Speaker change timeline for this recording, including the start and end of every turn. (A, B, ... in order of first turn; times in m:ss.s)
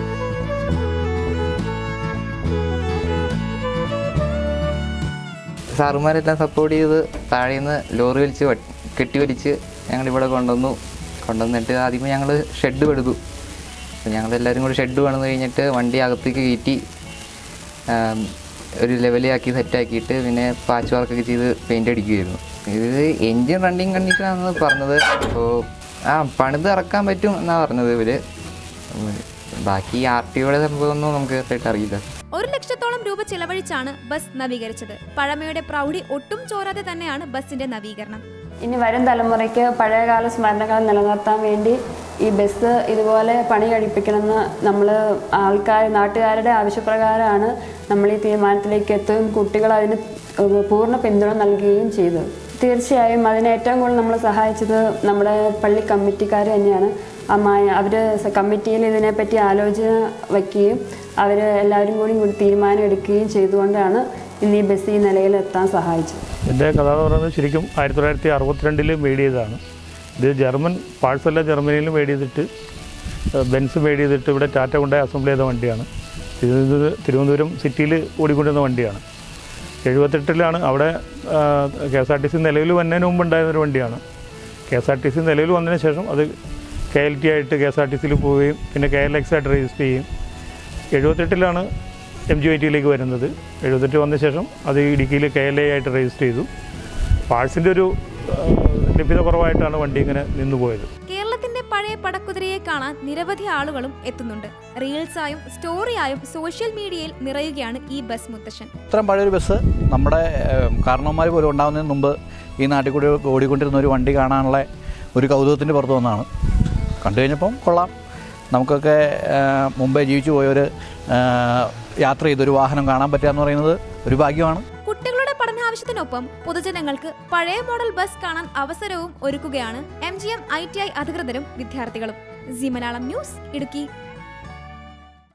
0:05.8-0:13.2 A
0:14.0-0:16.8 A
0:17.9-0:25.5 A
0:26.1-0:28.2 A
0:28.9-0:32.0 A
0:32.3-0:38.2 B
0:38.6-1:06.2 C
1:06.5-1:09.6 D
1:10.2-1:12.5 D
1:13.5-1:15.9 D
1:16.4-1:19.0 D
1:19.9-1:24.0 D
1:24.7-1:26.2 D
1:26.9-1:30.1 D
1:31.0-1:31.6 D
1:32.3-1:36.5 D
1:37.3-1:40.9 D
1:41.1-1:48.7 B
1:48.9-1:56.3 E
1:57.0-1:57.9 E
1:58.5-2:04.6 E
2:04.9-2:13.9 B